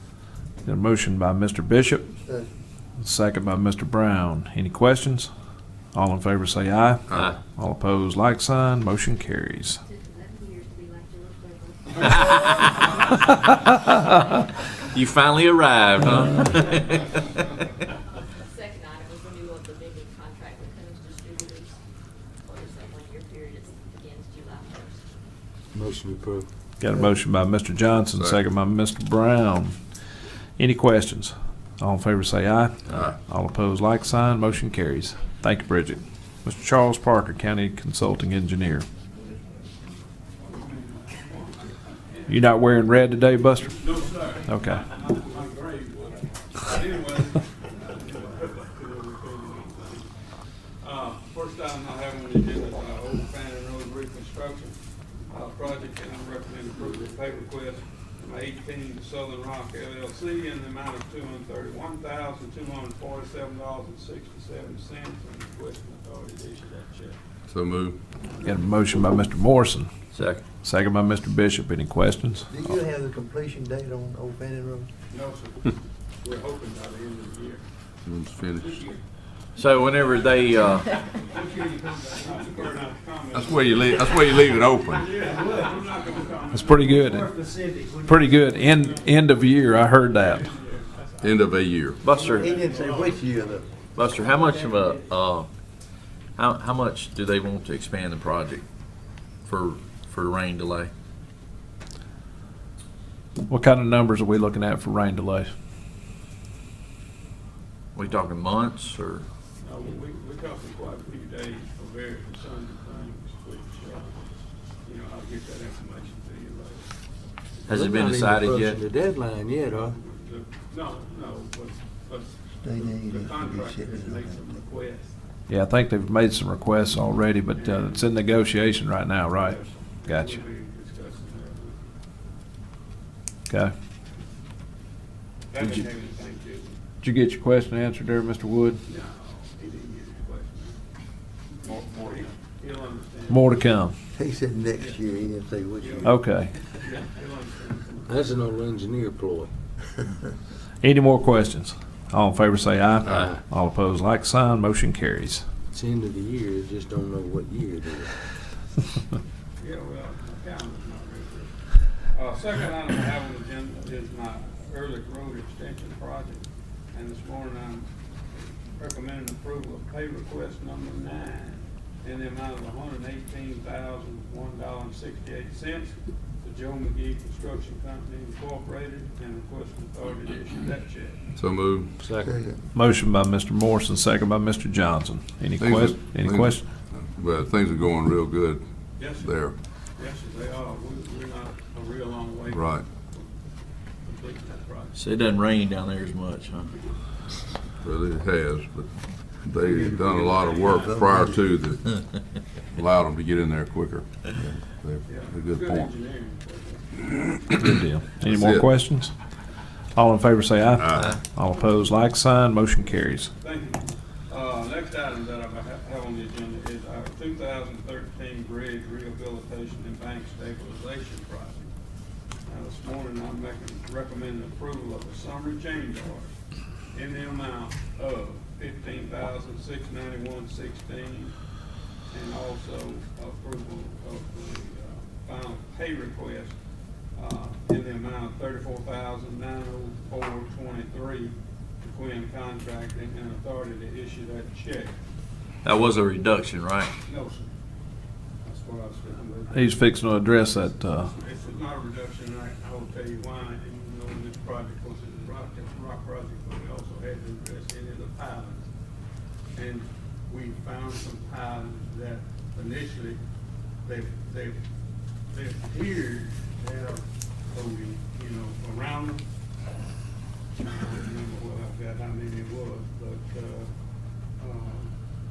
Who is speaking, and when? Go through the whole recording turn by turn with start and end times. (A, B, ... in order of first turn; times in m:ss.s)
0:00.6-0:02.1 A
0:02.2-0:02.5 B
0:03.0-0:05.3 A
0:05.9-0:09.8 A
0:07.1-0:07.4 C
0:09.8-0:12.6 D
0:12.1-0:12.9 C
0:13.6-0:14.4 D
0:14.9-0:17.1 C
0:16.4-0:16.8 D
0:18.4-0:21.8 D
0:22.4-0:25.0 D
0:25.7-0:26.5 E
0:26.8-0:29.8 A
0:28.0-0:28.4 F
0:30.6-0:38.9 A
0:40.4-0:42.2 G
0:42.3-0:43.8 A
0:43.8-0:54.7 G
0:44.4-0:44.8 A
0:55.3-1:07.2 G
1:07.5-1:08.0 F
1:08.4-1:09.9 A
1:10.1-1:10.4 C
1:10.5-1:12.5 A
1:12.5-1:14.9 B
1:15.1-1:17.6 G
1:18.0-1:18.8 F
1:18.6-1:19.0 G
1:19.6-1:20.9 C
1:19.9-1:27.1 G
1:23.3-1:25.1 F
1:26.5-1:27.4 A
1:28.0-1:30.5 A
1:28.6-1:31.3 G
1:31.2-1:32.0 F
1:32.0-1:32.5 C
1:32.0-1:33.7 G
1:32.2-1:33.6 B
1:33.9-1:35.5 C
1:36.4-1:38.6 C
1:39.4-1:40.9 C
1:43.5-1:45.5 A
1:47.9-1:49.2 C
1:49.6-1:54.1 G
1:54.8-1:56.9 G
1:57.6-1:58.8 C
1:57.6-2:00.0 E
1:59.5-2:05.1 G
2:02.6-2:04.6 B
2:05.5-2:10.4 A
2:07.5-2:08.1 G
2:09.4-2:11.9 G
2:15.5-2:16.8 G
2:17.0-2:18.8 A
2:18.8-2:20.8 G
2:21.6-2:23.5 G
2:23.3-2:23.9 A
2:24.1-2:26.1 B
2:25.8-2:28.4 G
2:26.0-2:26.5 A
2:28.1-2:29.5 E
2:30.8-2:35.4 A
2:33.1-2:33.4 E
2:35.7-2:38.1 E
2:39.6-2:41.5 G
2:42.1-3:01.2 G
3:01.4-3:01.9 F
3:02.0-3:02.3 E
3:02.2-3:02.6 B
3:02.7-3:06.7 A
3:05.6-3:08.6 F
3:09.0-3:13.3 G
3:09.2-3:09.5 F
3:12.5-3:12.8 F
3:14.0-3:15.0 G
3:14.9-3:16.7 C
3:17.8-3:18.9 F
3:19.4-3:22.0 F
3:19.7-3:21.0 G
3:20.7-3:21.4 B
3:22.7-3:25.9 F
3:25.0-3:27.4 G
3:27.6-3:29.1 A
3:28.3-3:28.7 F
3:30.0-3:33.3 A
3:30.8-3:31.2 F
3:33.4-3:41.7 G
3:42.5-3:46.3 G
3:46.9-3:51.3 G
3:52.1-3:56.5 G
3:57.2-4:04.9 G
4:05.6-4:06.9 C
4:07.0-4:07.5 G
4:08.4-4:18.6 G
4:09.5-4:11.1 A
4:19.5-4:23.2 G
4:23.8-4:24.6 G
4:25.3-4:29.2 G
4:30.6-4:33.7 G
4:34.4-4:34.9 G